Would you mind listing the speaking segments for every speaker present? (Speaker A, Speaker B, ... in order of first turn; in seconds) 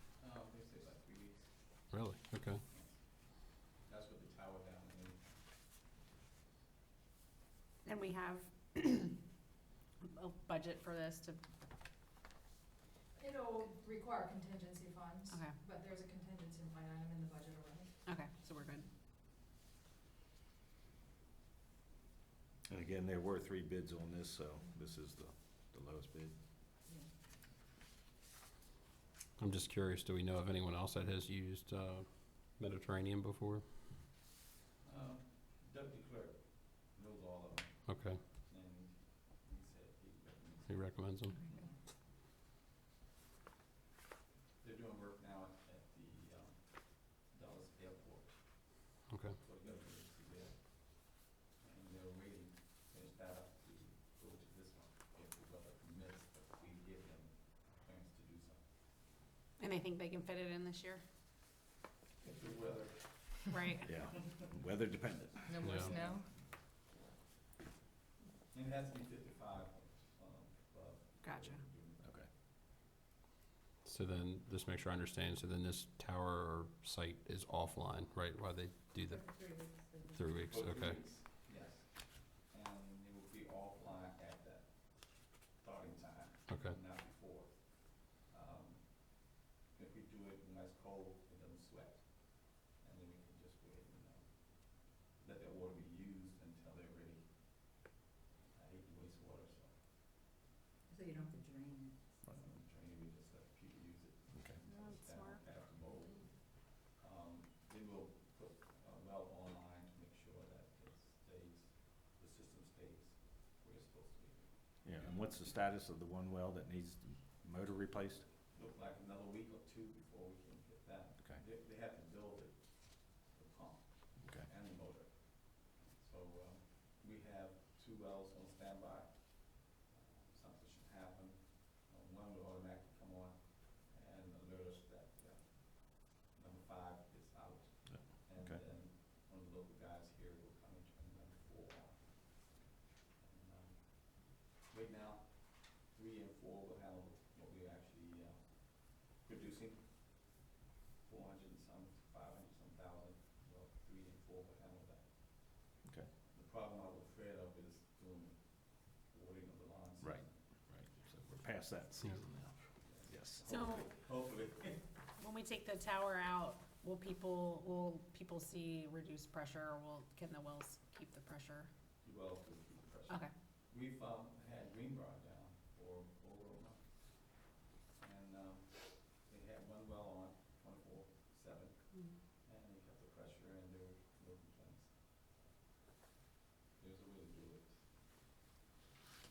Speaker A: 0.2-5.3, 34.8-41.7, 44.6-58.7, 62.2-64.3, 68.5-72.3, 80.5-97.9, 98.5-99.8, 102.3-115.5, 118.5-142.7, 143.2-150.4, 151.1-161.1, 162.6-165.0, 172.0-184.9, 186.8-187.9
Speaker B: 1.9-2.6, 29.4-33.9, 37.9-38.2, 40.7-41.4, 49.1-49.4, 65.6-66.0, 73.8-79.6, 80.1-81.0, 86.5-86.8
Speaker C: 7.8-9.2, 10.1-11.4, 15.3-15.6, 18.1-18.9, 59.6-61.0, 63.5-63.8, 104.7-105.4, 163.4-163.9, 165.2-171.7, 181.9-182.2
Speaker D: 13.2-18.0, 65.5-66.3, 71.2-71.6
Speaker E: 22.7-26.4, 63.9-65.6, 72.0-72.3, 104.3-104.6, 114.8-118.3, 124.2-124.5, 137.9-138.6, 155.8-156.1, 160.0-163.4
Speaker F: 79.0-80.2, 100.9-102.2